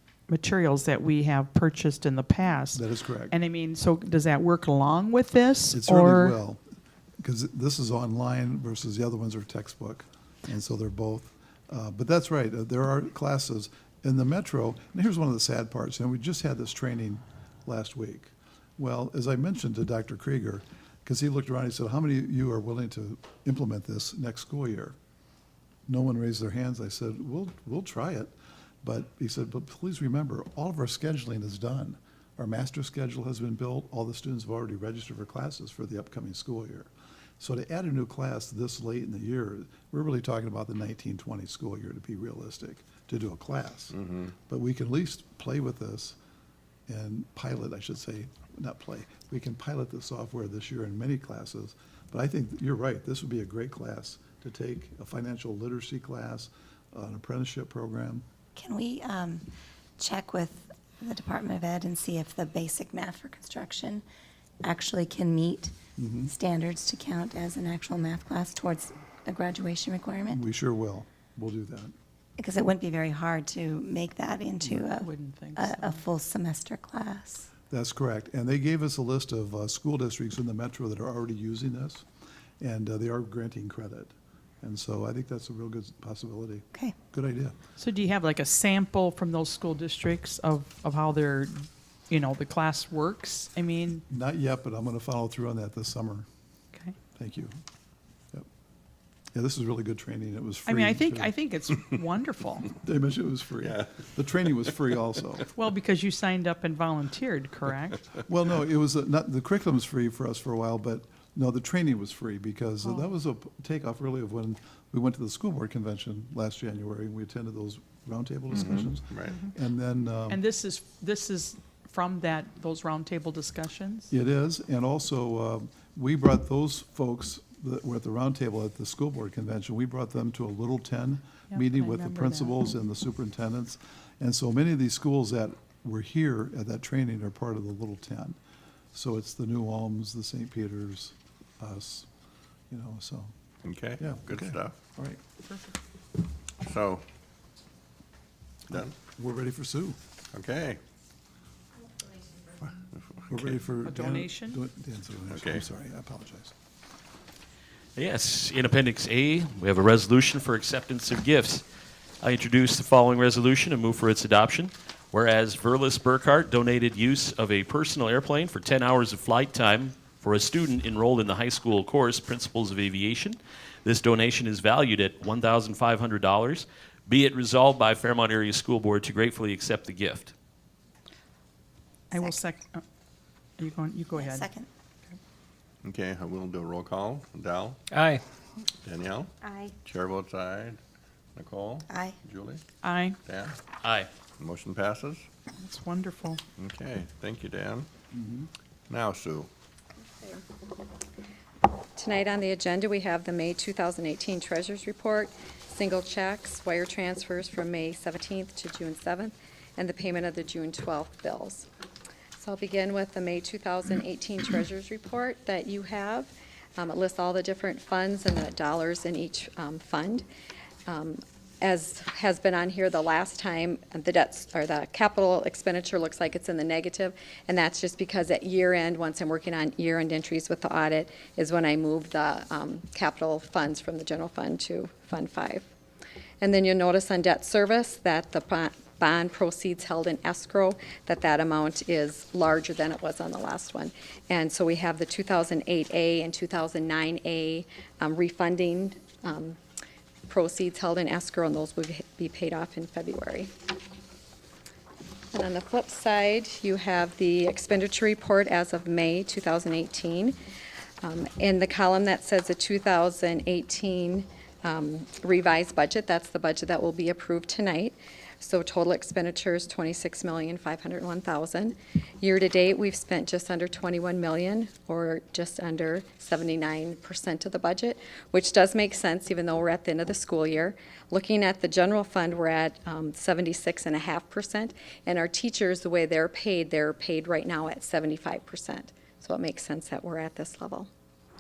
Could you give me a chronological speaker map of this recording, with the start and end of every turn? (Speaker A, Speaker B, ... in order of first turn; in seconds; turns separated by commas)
Speaker A: 0.3-6.4, Speaker B: 2.7-3.4, Speaker B: 5.7-6.6, Speaker B: 7.2-25.0, Speaker B: 25.9-46.2, Speaker C: 44.0-44.3, Speaker B: 46.9-58.3, Speaker D: 58.5-59.5, Speaker D: 60.0-64.0, Speaker D: 64.6-70.4, Speaker B: 66.0-66.3, Speaker B: 70.3-71.9, Speaker D: 72.4-77.5, Speaker A: 74.8-76.0, Speaker B: 77.7-82.0, Speaker B: 82.6-87.6, Speaker A: 87.8-94.0, Speaker B: 94.1-96.3, Speaker B: 97.2-97.6, Speaker B: 99.3-101.3, Speaker A: 100.7-102.7, Speaker B: 102.7-105.5, Speaker A: 105.5-108.1, Speaker B: 108.3-120.4, Speaker C: 118.5-119.4, Speaker A: 120.3-124.1, Speaker B: 124.1-138.4, Speaker A: 131.5-132.6, Speaker B: 138.9-142.1, Speaker B: 142.7-143.3, Speaker C: 143.7-144.8, Speaker B: 144.0-145.2, Speaker C: 146.6-147.0, Speaker B: 148.7-150.0, Speaker C: 150.3-150.8, Speaker C: 152.6-153.6, Speaker B: 153.3-156.5, Speaker A: 153.8-154.6, Speaker C: 155.3-155.7, Speaker E: 158.0-161.6, Speaker E: 162.2-180.3, Speaker A: 182.1-182.8, Speaker D: 182.1-182.4, Speaker A: 183.6-184.5, Speaker D: 184.1-184.7, Speaker C: 185.8-187.8, Speaker C: 188.8-189.3, Speaker D: 189.4-189.7, Speaker C: 189.8-190.8, Speaker C: 191.4-192.6, Speaker D: 191.9-192.2, Speaker A: 192.8-193.2, Speaker C: 193.2-193.6, Speaker E: 193.8-194.1, Speaker C: 194.4-195.3, Speaker A: 195.6-196.4, Speaker C: 196.6-197.9, Speaker B: 198.1-198.5, Speaker C: 198.9-199.5, Speaker F: 202.0-211.7, Speaker F: 212.4-220.3, Speaker F: 220.9-235.7, Speaker F: 236.4-249.6, Speaker F: 250.3-253.5, Speaker F: 255.3-260.4, Speaker F: 261.0-290.9